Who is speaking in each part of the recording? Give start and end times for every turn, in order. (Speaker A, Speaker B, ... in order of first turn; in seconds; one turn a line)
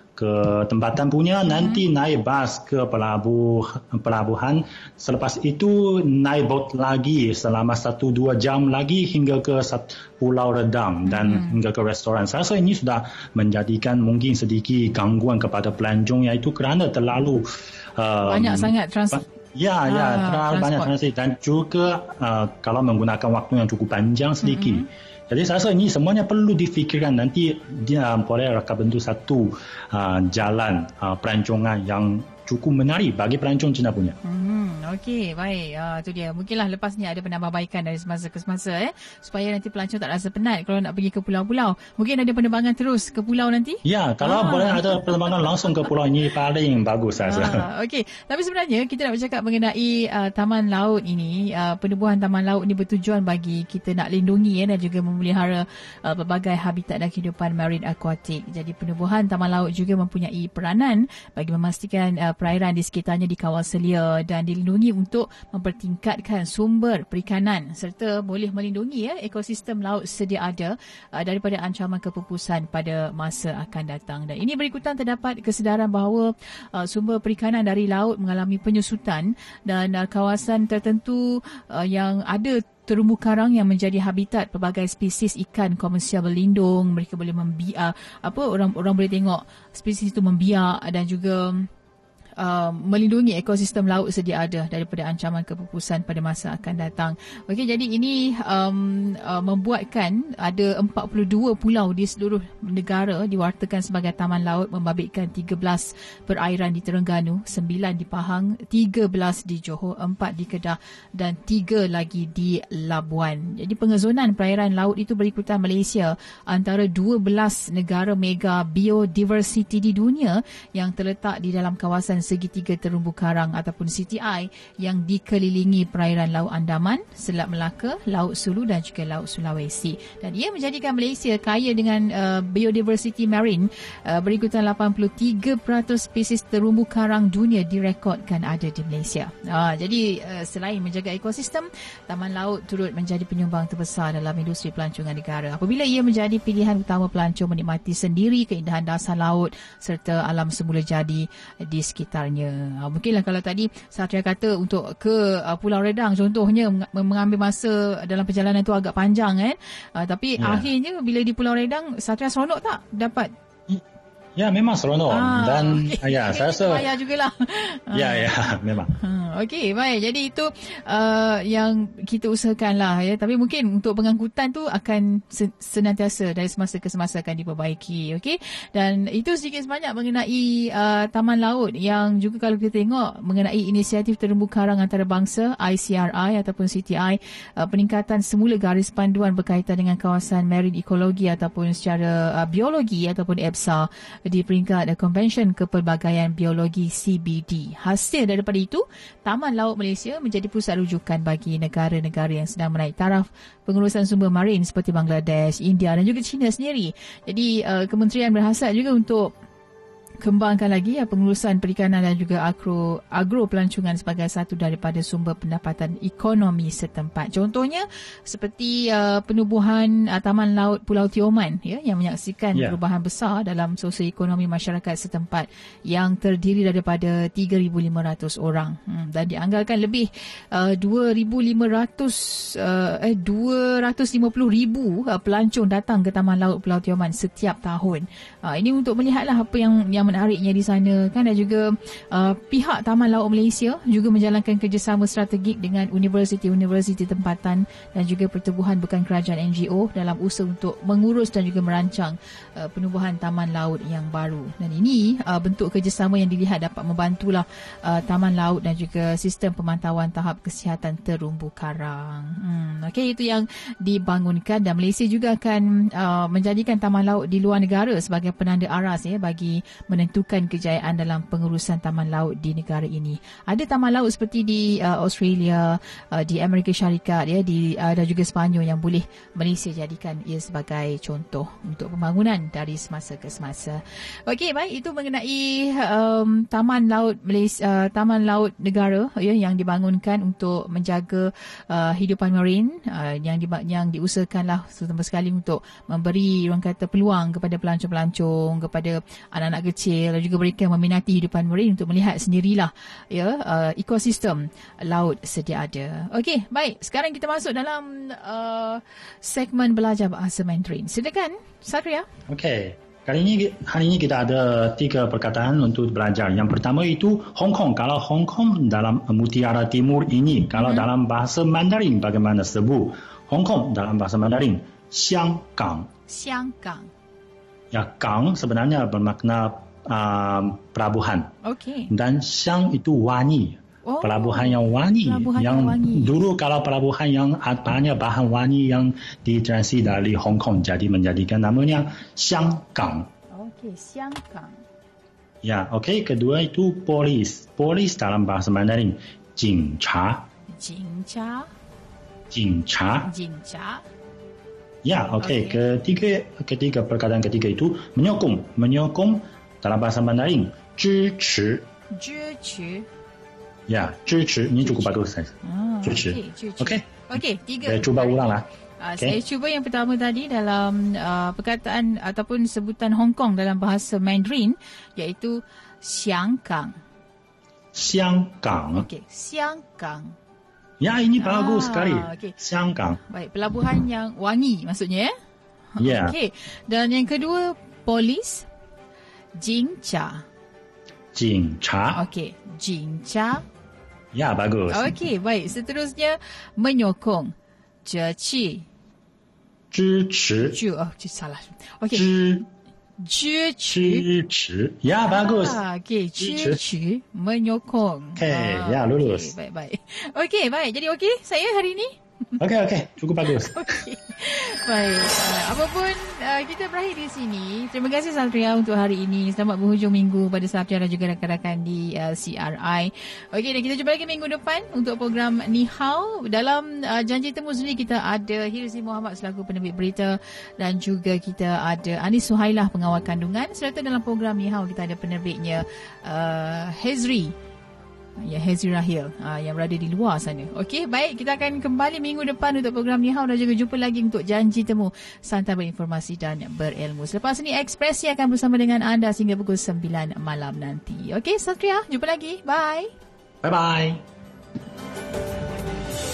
Speaker A: 0.1-34.2
Speaker B: 1.5-1.8
Speaker B: 11.1-11.6
Speaker B: 18.2-19.2
Speaker B: 19.9-20.9
Speaker B: 24.4-24.8
Speaker B: 34.2-45.8
Speaker A: 43.8-47.6
Speaker B: 47.2-91.7
Speaker B: 92.4-163.3
Speaker A: 160.4-160.7
Speaker A: 164.3-166.8
Speaker B: 165.1-168.3
Speaker A: 167.9-168.9
Speaker B: 169.0-209.3
Speaker B: 210.2-312.1
Speaker A: 312.3-325.9
Speaker B: 320.6-320.9
Speaker B: 326.1-326.9
Speaker A: 327.7-331.3
Speaker B: 331.4-331.9
Speaker A: 331.9-343.1
Speaker B: 333.8-336.2
Speaker B: 343.3-344.6
Speaker A: 345.4-350.3
Speaker B: 350.6-351.5
Speaker A: 352.3-353.1
Speaker B: 353.0-353.8
Speaker A: 354.8-361.6
Speaker B: 355.2-355.6
Speaker B: 361.9-362.9
Speaker A: 363.7-367.1
Speaker B: 364.6-376.8
Speaker A: 367.6-368.4
Speaker A: 377.7-378.9
Speaker B: 378.7-380.1
Speaker A: 380.8-383.0
Speaker B: 381.2-382.3
Speaker B: 383.1-385.1
Speaker B: 385.7-388.4
Speaker A: 385.8-386.1
Speaker B: 389.3-390.2
Speaker A: 391.1-392.0
Speaker B: 391.9-393.4
Speaker A: 394.1-394.9
Speaker B: 394.7-398.7
Speaker A: 399.7-400.6
Speaker B: 400.4-402.1
Speaker A: 401.9-402.4
Speaker B: 403.0-404.1
Speaker A: 403.7-405.6
Speaker B: 405.1-412.4
Speaker A: 406.2-406.6
Speaker A: 408.2-409.3
Speaker A: 412.4-413.7
Speaker B: 413.4-437.3
Speaker B: 438.2-452.9
Speaker A: 453.4-454.0